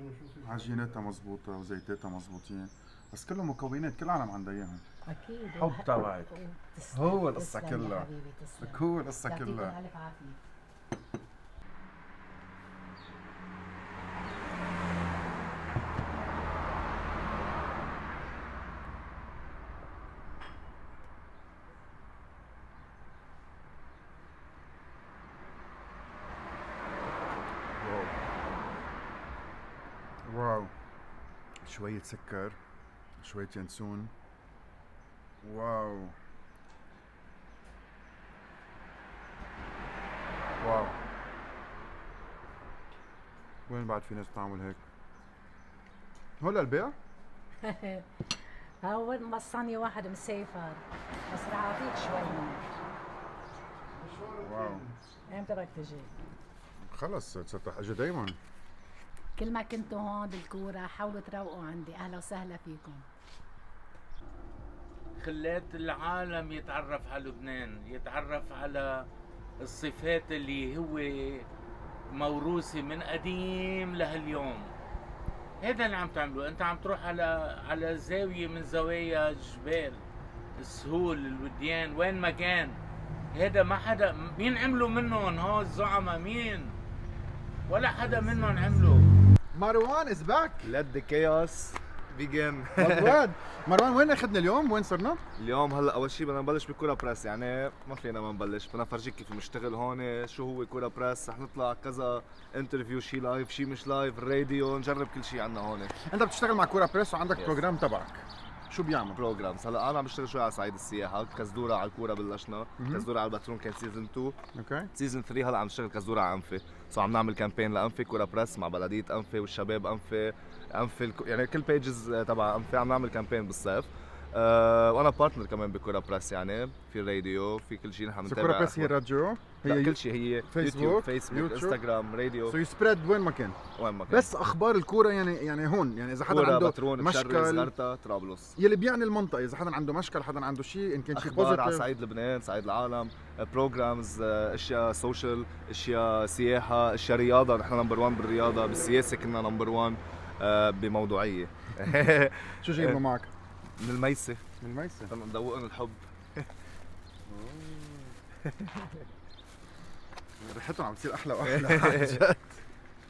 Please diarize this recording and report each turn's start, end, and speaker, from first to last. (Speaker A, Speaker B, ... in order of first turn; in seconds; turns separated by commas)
Speaker A: 0.4-4.8, Speaker B: 5.1-10.4, Speaker A: 5.5-6.3, Speaker A: 6.9-8.1, Speaker A: 8.6-9.7, Speaker A: 27.8-28.1, Speaker A: 30.2-30.7, Speaker A: 31.6-32.6, Speaker A: 33.2-34.1, Speaker A: 35.4-36.1, Speaker A: 40.6-40.9, Speaker A: 43.7-44.8, Speaker A: 46.4-46.9, Speaker B: 47.6-48.0, Speaker B: 48.8-52.6, Speaker A: 54.4-54.8, Speaker B: 55.3-56.1, Speaker A: 56.9-58.3, Speaker B: 59.4-63.0, Speaker C: 65.2-69.0, Speaker C: 69.7-71.2, Speaker C: 72.2-74.7, Speaker C: 75.7-80.0, Speaker C: 80.8-82.8, Speaker C: 83.4-86.7, Speaker A: 89.5-90.7, Speaker D: 90.6-93.2, Speaker A: 92.8-95.2, Speaker D: 95.4-105.9, Speaker A: 106.1-109.2, Speaker D: 109.2-114.4, Speaker A: 112.8-113.0, Speaker A: 114.5-114.9, Speaker D: 114.9-128.9, Speaker A: 128.3-131.8, Speaker D: 129.6-132.6, Speaker A: 132.5-133.6, Speaker D: 133.8-134.3, Speaker A: 134.1-137.7, Speaker D: 136.3-138.6, Speaker A: 138.6-141.9, Speaker D: 141.1-153.0, Speaker A: 152.6-153.3, Speaker D: 153.8-154.4, Speaker A: 154.6-155.1, Speaker D: 155.1-156.5, Speaker A: 160.4-162.6, Speaker D: 161.4-162.2